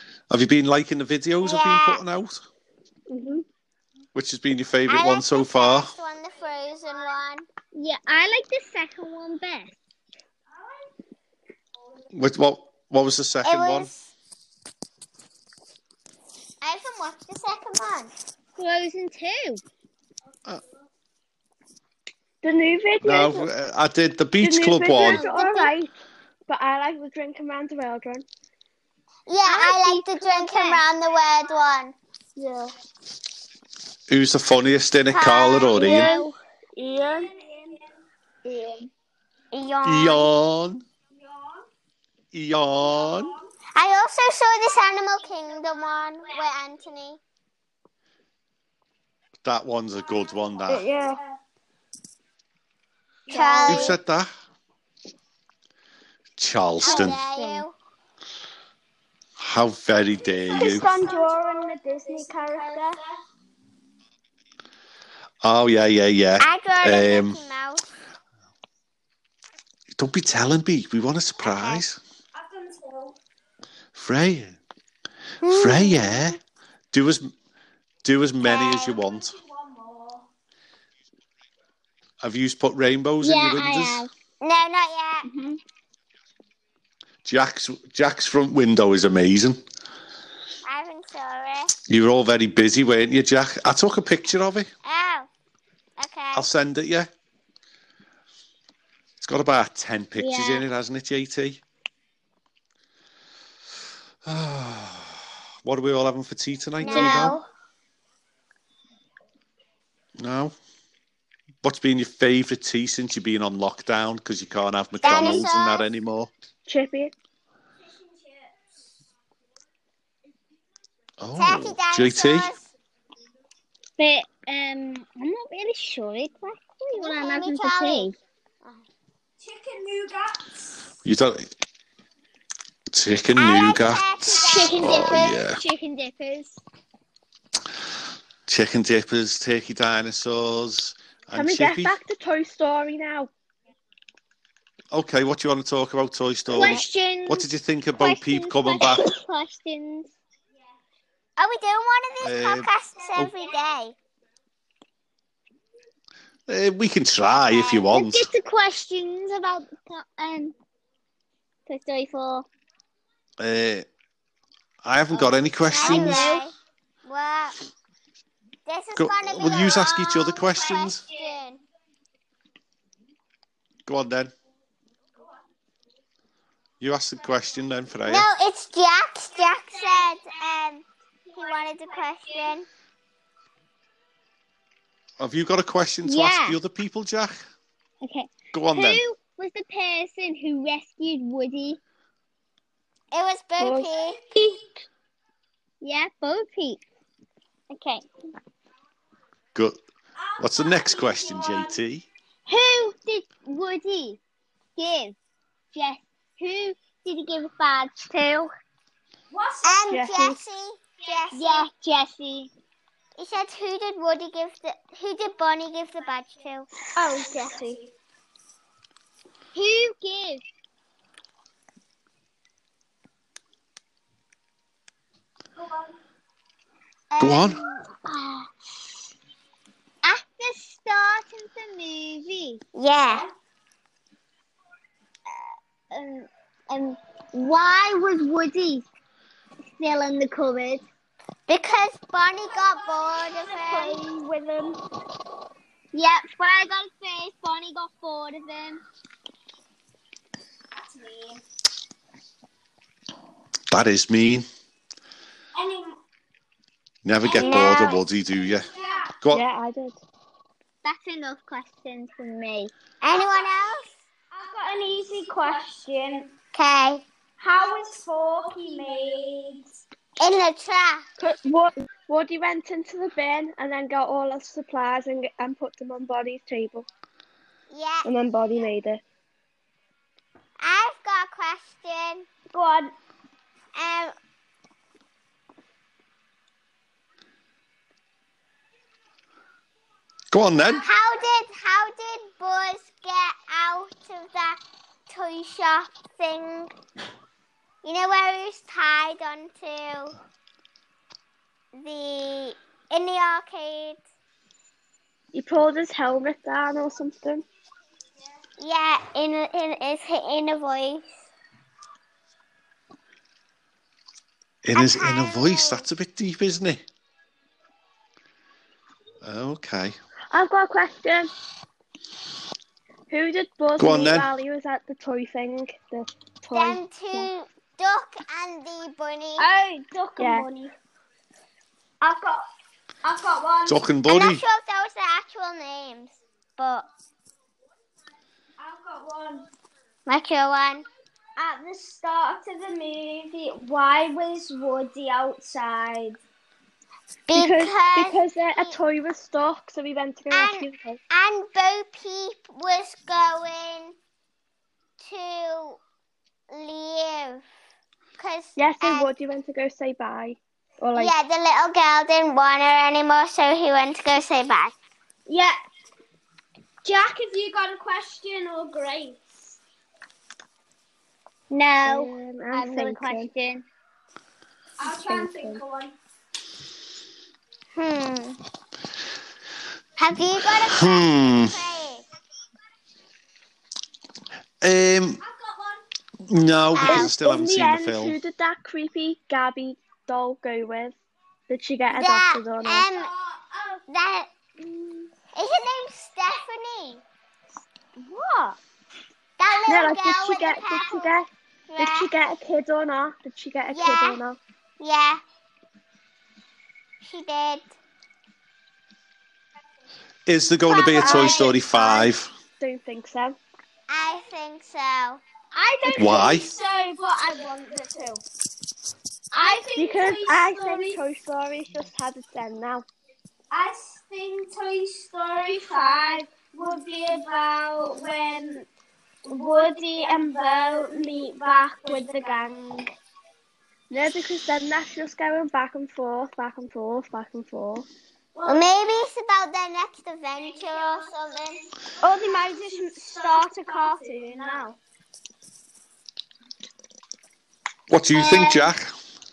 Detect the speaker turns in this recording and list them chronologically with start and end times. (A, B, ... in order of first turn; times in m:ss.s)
0:00.3-0:02.4 A
0:01.4-0:02.0 B
0:03.1-0:03.4 C
0:04.1-0:05.9 A
0:04.9-0:07.5 B
0:07.7-0:09.8 D
0:12.1-0:13.9 A
0:13.4-0:14.1 B
0:16.6-0:18.1 B
0:18.6-0:19.6 D
0:22.4-0:23.5 C
0:23.0-0:25.2 A
0:24.4-0:26.0 C
0:25.0-0:25.7 D
0:26.5-0:28.3 C
0:29.3-0:32.0 B
0:29.4-0:30.8 D
0:32.4-0:32.7 C
0:34.1-0:36.1 A
0:35.1-0:36.2 B
0:35.8-0:37.3 C
0:35.9-0:36.3 D
0:37.3-0:37.8 E
0:38.5-0:38.8 E
0:39.5-0:40.3 B
0:39.8-0:40.8 A
0:42.3-0:43.4 A
0:43.0-0:43.4 E
0:43.7-0:47.2 B
0:49.4-0:50.9 A
0:50.6-0:51.3 E
0:53.3-0:53.9 E
0:53.3-0:54.0 B
0:53.6-0:54.3 A
0:56.4-0:57.2 A
0:56.8-0:57.8 B
0:59.4-1:00.9 A
1:00.4-1:03.0 E
1:05.4-1:07.4 A
1:06.4-1:07.9 B
1:10.0-1:12.0 A
1:11.4-1:11.8 B
1:12.3-1:13.2 E
1:13.9-1:14.6 A
1:15.4-1:16.4 B
1:15.4-1:16.4 A
1:16.9-1:17.3 A
1:18.0-1:19.4 A
1:18.7-1:20.2 E
1:22.2-1:24.1 A
1:23.2-1:24.1 D
1:24.4-1:25.3 B
1:27.2-1:29.6 A
1:30.6-1:31.7 B
1:31.9-1:34.7 A
1:34.8-1:35.3 B
1:36.0-1:36.5 B
1:36.3-1:37.1 A
1:39.2-1:41.6 A
1:40.2-1:40.6 D
1:44.2-1:47.4 A
1:46.8-1:47.5 B
1:46.9-1:47.3 D
1:50.2-1:50.5 A
1:51.6-1:56.3 A
1:55.0-1:55.9 B
1:56.7-1:57.1 C
1:57.9-1:58.5 E
2:01.2-2:02.5 A
2:01.4-2:02.7 B
2:04.0-2:08.2 D
2:06.9-2:08.1 B
2:09.4-2:10.6 E
2:11.0-2:11.5 A
2:12.9-2:15.6 A
2:13.4-2:15.4 B
2:14.4-2:16.6 D
2:18.5-2:22.0 A
2:21.3-2:23.3 C
2:24.9-2:29.1 A
2:26.5-2:30.1 D
2:31.4-2:34.0 B
2:32.2-2:33.3 A
2:36.5-2:38.3 A
2:37.5-2:37.8 B
2:37.8-2:40.6 D
2:41.6-2:42.5 D
2:43.4-2:43.9 A
2:44.8-2:46.4 A
2:45.7-2:47.6 B
2:45.8-2:46.5 D
2:48.6-2:51.6 B
2:49.0-2:51.0 A
2:53.9-2:54.3 A
2:56.8-2:58.3 A
2:58.1-3:02.7 B
3:05.2-3:07.4 A
3:06.0-3:06.6 D
3:08.0-3:11.8 D
3:08.5-3:09.0 A
3:13.1-3:14.2 B
3:13.6-3:14.4 C
3:15.8-3:16.8 D
3:17.7-3:18.0 D
3:20.2-3:21.8 E
3:20.4-3:22.1 A
3:22.5-3:24.2 D
3:24.8-3:25.2 D
3:25.7-3:28.5 D
3:29.3-3:29.9 E
3:29.6-3:31.6 B
3:29.9-3:30.4 C
3:31.3-3:32.5 D
3:33.2-3:36.7 B
3:37.0-3:37.9 E
3:39.5-3:40.4 D
3:45.6-3:45.8 E
3:47.1-3:47.8 B
3:47.2-3:47.6 A
3:48.0-3:48.5 D
3:50.0-3:52.6 D
3:52.7-3:53.3 B
3:55.9-3:58.9 D
3:59.8-4:00.8 D
4:01.5-4:04.0 B
4:03.1-4:04.8 E
4:05.9-4:08.8 D
4:10.8-4:11.4 E
4:13.7-4:14.5 A
4:15.6-4:16.0 E
4:17.0-4:18.7 A
4:17.3-4:18.0 B
4:17.5-4:17.9 E
4:18.6-4:19.1 E
4:19.3-4:20.0 C
4:20.8-4:22.7 D
4:23.0-4:23.9 B
4:24.3-4:26.3 E
4:26.5-4:27.0 B
4:27.4-4:29.8 E
4:30.2-4:31.0 B
4:31.2-4:36.9 C
4:37.7-4:38.1 B
4:38.0-4:39.0 C
4:40.6-4:42.3 B
4:42.5-4:42.9 E
4:43.8-4:44.1 B
4:50.3-4:50.8 A
4:50.8-4:56.7 B
4:57.8-5:00.1 B
5:01.7-5:04.0 B
5:05.3-5:07.4 C
5:08.6-5:11.1 B
5:14.6-5:16.8 A
5:14.7-5:15.9 B
5:19.2-5:20.0 A
5:20.3-5:21.3 C
5:23.1-5:27.3 C
5:23.8-5:24.3 A
5:26.5-5:29.5 B
5:29.4-5:30.7 E
5:30.2-5:30.5 C
5:32.0-5:32.4 E
5:33.0-5:33.8 E
5:33.6-5:34.4 A
5:34.1-5:36.9 B
5:38.6-5:39.5 E
5:40.1-5:40.9 B
5:41.4-5:46.2 E
5:47.3-5:48.8 B
5:47.3-5:51.0 C
5:50.3-5:54.0 B
5:55.0-5:55.8 B
5:56.5-5:57.4 B
5:58.2-5:59.1 B
5:58.6-6:01.1 C
6:01.0-6:04.8 B
6:05.3-6:05.6 E
6:06.8-6:09.6 E
6:11.5-6:13.6 D
6:11.9-6:13.3 C
6:14.8-6:16.0 E
6:15.0-6:15.6 C
6:17.8-6:18.4 B
6:20.0-6:22.0 B
6:20.6-6:21.6 A
6:24.6-6:25.2 A
6:25.2-6:25.8 E
6:26.3-6:28.2 A
6:26.8-6:27.1 B
6:26.8-6:31.0 C
6:31.5-6:32.9 C
6:31.9-6:33.1 B
6:32.9-6:33.8 E
6:33.9-6:34.3 B
6:35.2-6:37.0 B
6:38.0-6:38.6 E
6:39.4-6:41.2 B
6:39.7-6:44.4 C
6:41.7-6:42.1 B
6:43.7-6:44.2 B
6:44.8-6:45.2 B
6:47.0-6:47.7 B
6:50.3-6:52.3 A
6:50.7-6:51.5 B
6:51.0-6:53.4 C
6:53.9-6:55.2 B
6:55.5-6:58.2 E
6:55.9-6:56.5 A
6:59.3-7:01.0 E
6:59.8-7:02.9 C
7:03.5-7:08.7 E
7:09.2-7:12.9 E
7:13.9-7:17.9 C
7:18.4-7:19.0 E
7:18.4-7:21.7 B
7:20.6-7:20.9 E
7:22.0-7:24.8 E
7:27.9-7:28.9 A
7:28.1-7:28.7 D